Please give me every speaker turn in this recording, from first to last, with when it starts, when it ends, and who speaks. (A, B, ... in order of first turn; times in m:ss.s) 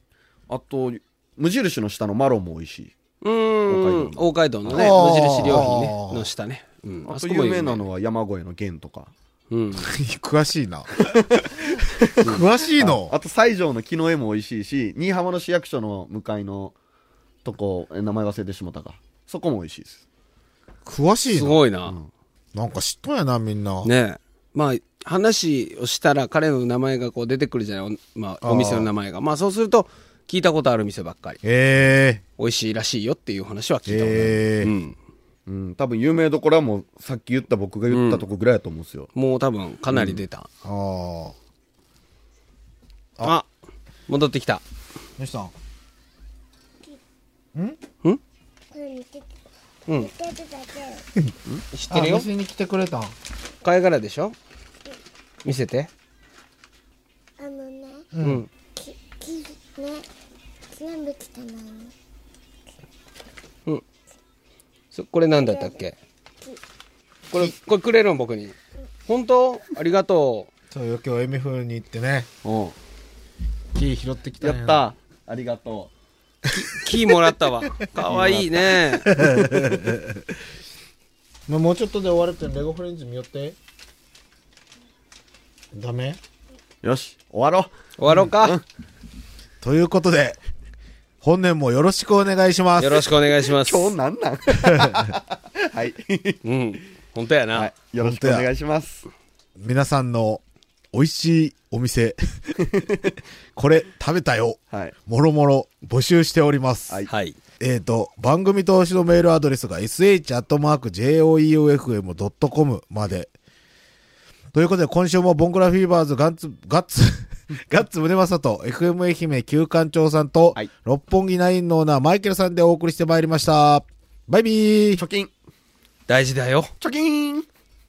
0:00.5-0:02.9 A
0:03.2-0:07.8 B
0:03.7-0:04.9 A
0:04.7-0:06.3 C
0:07.0-0:09.1 A
0:09.5-0:09.9 B
0:09.7-0:11.0 C
0:11.0-0:16.7 A
0:12.2-0:13.1 C
0:17.4-0:20.0 A
0:20.8-0:21.6 C
0:21.3-0:22.0 B
0:22.5-0:23.9 C
0:23.8-0:31.4 B
0:28.4-0:28.9 C
0:31.4-0:32.2 C
0:32.4-0:34.9 B
0:33.9-0:34.7 C
0:35.4-0:39.1 A
0:37.9-0:38.2 B
0:39.1-0:40.5 B
0:39.9-0:40.2 A
0:40.6-0:41.3 C
0:43.2-0:43.5 B
0:44.1-0:44.6 B
0:45.2-0:45.5 C
0:48.7-0:49.4 D
0:49.9-0:51.1 D
0:51.7-0:52.3 B
0:51.9-0:53.1 C
0:53.6-0:54.4 B
0:55.4-0:55.9 B
0:57.4-0:58.1 D
0:58.1-0:58.4 C
0:58.2-0:58.5 B
0:58.7-1:00.0 D
1:00.7-1:01.9 D
1:04.9-1:05.9 B
1:05.4-1:05.8 D
1:07.3-1:08.6 B
1:09.1-1:10.5 B
1:10.7-1:12.3 C
1:12.4-1:12.8 A
1:13.7-1:14.8 C
1:14.4-1:15.9 A
1:16.5-1:19.1 B
1:17.8-1:19.8 A
1:19.1-1:20.3 C
1:21.5-1:23.6 C
1:25.7-1:26.2 C
1:26.8-1:28.6 A
1:28.0-1:28.6 B
1:29.6-1:30.4 C
1:31.2-1:33.1 C
1:32.8-1:33.9 B
1:33.4-1:36.4 A
1:34.6-1:35.2 C
1:36.4-1:37.7 B
1:37.5-1:39.1 A
1:38.0-1:38.5 C
1:39.6-1:40.4 C
1:40.9-1:42.5 C
1:42.6-1:43.2 A
1:43.5-1:47.0 C
1:47.1-1:47.4 B
1:47.6-1:53.3 C
1:54.5-2:05.0 C
2:05.0-2:05.3 A
2:06.1-2:06.7 B
2:06.8-2:07.4 A